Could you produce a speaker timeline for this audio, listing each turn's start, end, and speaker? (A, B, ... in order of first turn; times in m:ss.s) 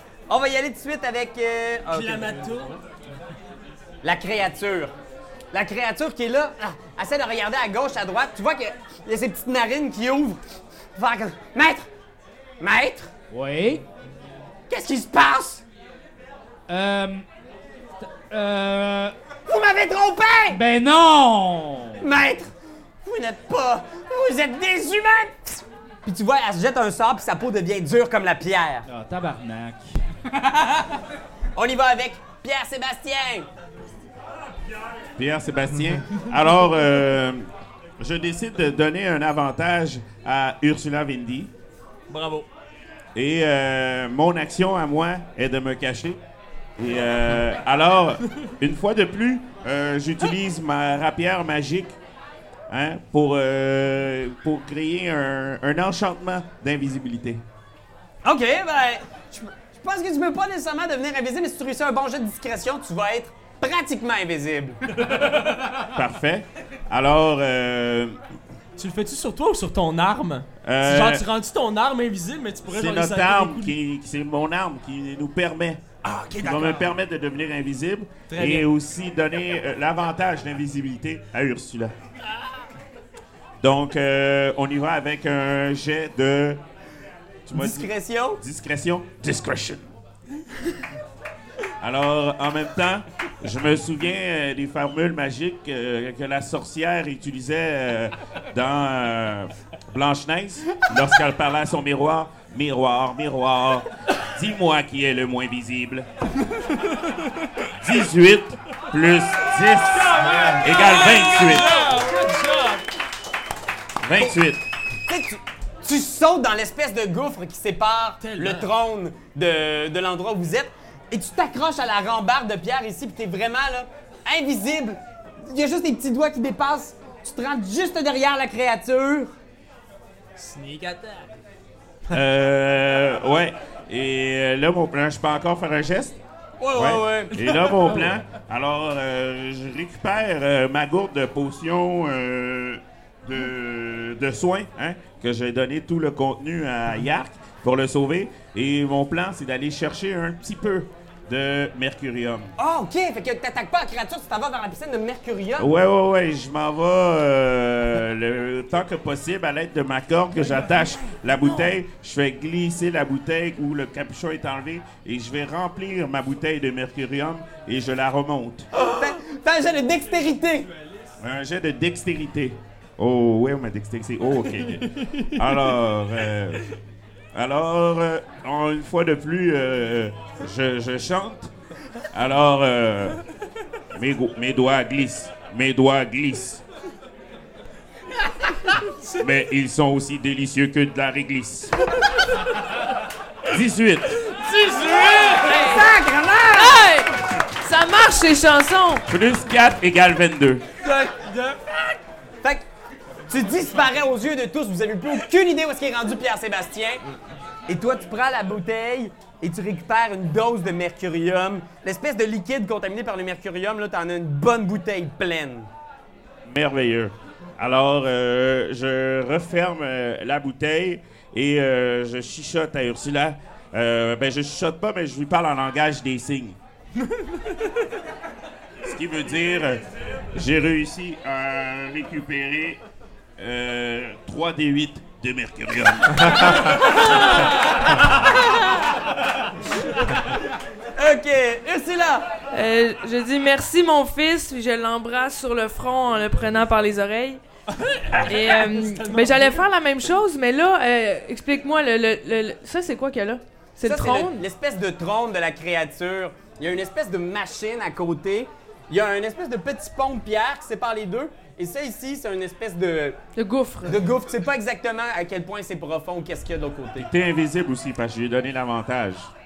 0:00.3-0:02.5 A
0:01.9-0:02.8 B
0:04.0-0:04.9 A
0:05.5-0:10.4 A
0:11.0-0:11.9 A
0:12.6-0:13.1 A
0:13.3-0:13.8 C
0:14.7-0:15.6 A
0:16.7-0:17.2 C
0:18.0-0:19.2 C
0:19.5-0:20.6 A
0:20.5-0:22.0 C
0:22.0-0:22.5 A
0:23.0-0:28.8 A
0:28.9-0:29.9 C
0:30.4-0:30.8 A
0:31.6-0:33.5 A
0:35.2-0:37.5 D
0:38.0-0:41.5 D
0:42.1-0:42.5 B
0:43.2-0:46.2 D
0:46.8-0:52.0 D
0:52.7-0:57.4 D
0:58.2-1:04.8 A
1:05.9-1:08.2 D
1:08.8-1:13.8 B
1:10.6-1:11.2 D
1:12.7-1:15.8 D
1:16.0-1:16.9 B
1:16.4-1:21.9 D
1:18.3-1:18.7 B
1:23.6-1:26.6 D
1:27.5-1:29.8 D
1:27.5-1:28.4 A
1:31.8-1:46.1 D
1:47.8-1:51.9 D
1:49.9-1:52.9 B
1:54.0-1:54.6 D
1:55.1-2:09.3 A
1:58.2-1:58.7 B
2:10.4-2:11.3 B
2:12.1-2:16.2 D
2:16.6-2:18.0 A
2:16.7-2:32.5 D
2:32.6-2:35.7 A
2:35.6-2:48.7 D
2:48.8-2:50.7 A
2:51.2-2:56.7 D
2:57.3-3:01.5 D
3:02.1-3:03.2 D
3:03.9-3:06.6 D
3:09.2-3:11.9 D
3:13.5-3:14.3 D
3:14.2-3:15.7 B
3:15.4-3:16.9 A
3:15.5-3:15.9 E
3:16.5-3:19.1 E
3:19.1-3:20.6 D
3:20.8-3:21.1 A
3:20.9-3:21.6 B
3:23.3-3:27.0 A
3:27.7-3:35.7 A
3:36.5-3:46.6 D
3:48.8-3:52.8 D
3:53.4-3:57.0 D
3:57.0-3:57.5 E
4:01.0-4:02.3 A
4:02.5-4:07.4 E
4:07.7-4:09.7 B
4:08.2-4:14.4 E
4:13.8-4:23.2 A
4:23.4-4:24.0 E
4:23.8-4:27.1 A
4:27.0-4:29.3 D